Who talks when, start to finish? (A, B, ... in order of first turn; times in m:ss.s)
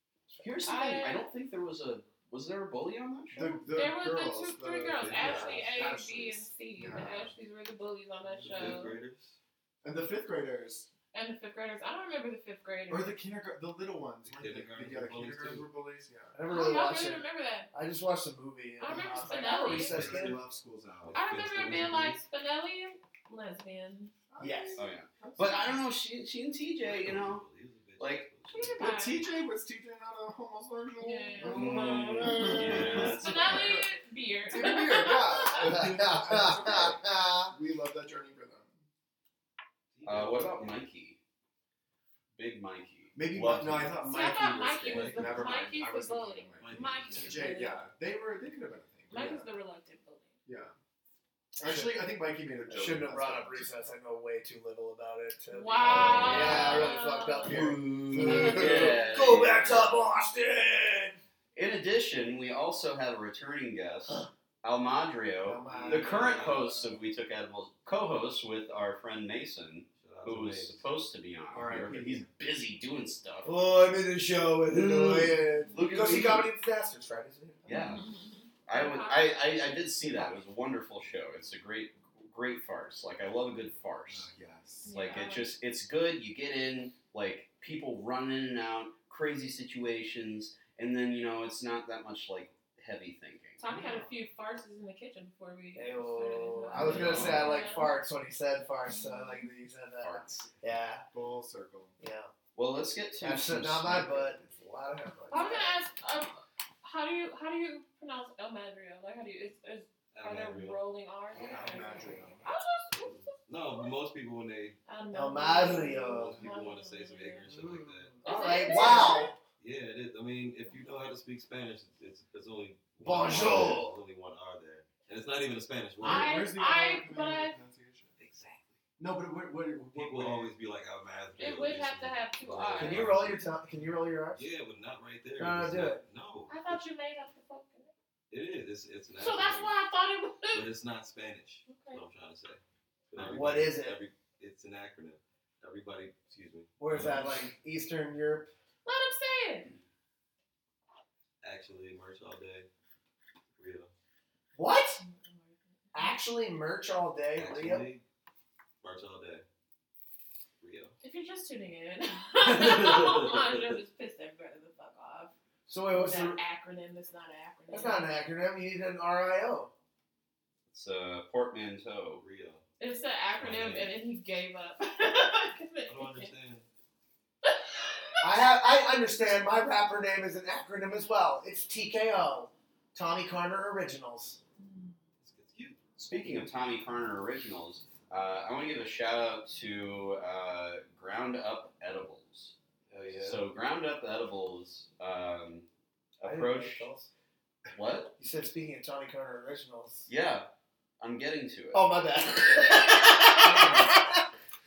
0:00.3-0:00.5 A
0:00.4-0:03.6 B
0:00.6-0:01.3 C
0:03.3-0:07.3 D
0:03.6-0:09.0 C
0:05.0-0:05.7 E
0:08.2-0:09.4 E
0:08.6-0:08.8 D
0:09.8-0:10.9 D
0:11.1-0:13.2 C
0:12.9-0:16.4 D
0:14.3-0:15.7 E
0:16.3-0:20.4 A
0:16.4-0:17.7 C
0:18.8-0:20.2 C
0:19.3-0:21.2 D
0:20.0-0:20.4 E
0:21.0-0:22.2 E
0:21.1-0:24.1 C
0:24.3-0:25.8 D
0:24.4-0:24.8 A
0:24.8-0:29.0 B
0:26.8-0:28.8 E
0:28.5-0:29.3 C
0:28.8-0:33.9 D
0:31.0-0:35.7 C
0:31.4-0:33.8 B
0:34.5-0:38.8 D
0:35.6-0:37.5 A
0:39.9-0:40.8 E
0:40.0-0:41.2 B
0:42.4-0:45.6 B
0:43.2-0:49.5 D
0:44.1-0:47.8 C
0:44.9-0:45.5 E
0:46.6-0:47.5 E
0:49.1-0:50.4 C
0:50.5-0:50.7 D
0:51.6-0:53.8 D
0:51.6-0:52.0 A
0:52.7-1:01.2 A
0:55.5-0:57.8 C
0:55.9-0:56.8 D
0:55.9-0:56.6 E
0:56.0-0:56.9 B
0:57.5-1:00.1 B
0:57.5-0:58.9 D
1:01.5-1:13.5 B
1:05.4-1:06.7 D
1:05.6-1:06.5 A
1:05.6-1:06.8 E
1:10.0-1:10.8 E
1:11.5-1:12.3 D
1:13.4-1:17.7 A
1:14.7-1:16.5 B
1:17.7-1:18.0 B
1:17.7-1:19.4 C
1:18.6-1:24.3 B
1:24.1-1:25.0 D
1:24.8-1:25.5 C
1:24.9-1:33.6 B
1:33.6-1:38.0 C
1:33.8-1:34.0 D
1:35.8-1:41.0 A
1:36.8-1:37.6 B
1:36.9-1:37.3 E
1:38.9-1:39.5 C
1:40.0-1:40.6 B
1:41.1-1:42.0 D
1:42.0-1:42.3 A
1:42.6-1:44.3 B
1:43.2-1:45.8 A
1:45.3-1:53.9 C
1:50.1-1:50.8 E
1:51.4-1:52.5 D
1:53.1-1:54.8 E
1:54.9-1:57.5 C
1:55.1-1:56.4 A
1:56.1-1:58.2 E
1:57.6-1:59.4 A
1:58.2-1:59.4 C
1:59.6-2:06.5 E
2:03.0-2:04.0 A
2:06.0-2:08.2 D
2:06.0-2:07.6 C
2:08.2-2:08.8 E
2:09.0-2:10.5 D
2:09.9-2:13.5 E
2:11.4-2:13.1 C
2:12.7-2:14.5 A
2:14.3-2:16.8 E
2:15.4-2:16.0 A
2:16.5-2:17.9 C
2:18.3-2:19.8 E
2:19.2-2:20.7 C
2:20.5-2:27.4 E
2:21.7-2:22.0 C
2:23.2-2:24.0 A
2:26.8-2:28.5 A
2:28.8-2:29.7 C
2:31.4-2:32.7 E
2:33.6-2:33.9 E
2:34.6-2:35.0 A
2:35.0-2:36.2 C
2:35.9-2:37.9 A
2:37.4-2:38.0 E
2:38.8-2:39.4 E
2:40.6-2:41.0 E
2:41.0-2:45.3 C
2:42.4-2:43.6 E
2:45.7-2:46.4 A
2:45.9-2:48.1 C
2:47.7-2:49.7 A
2:50.7-2:52.2 B
2:52.2-2:52.6 E
2:52.8-2:56.3 C
2:53.4-2:54.0 E
2:55.9-2:56.7 E
2:57.4-2:58.1 C
2:58.2-3:04.4 A
3:04.6-3:04.9 C
3:05.2-3:05.8 E
3:06.0-3:12.5 B
3:12.9-3:13.4 E
3:13.2-3:15.6 B
3:16.2-3:16.9 B
3:16.2-3:17.1 A
3:17.7-3:18.2 B
3:18.2-3:20.1 A
3:20.1-3:20.5 B
3:21.0-3:21.9 B
3:21.7-3:24.2 A
3:23.4-3:24.1 D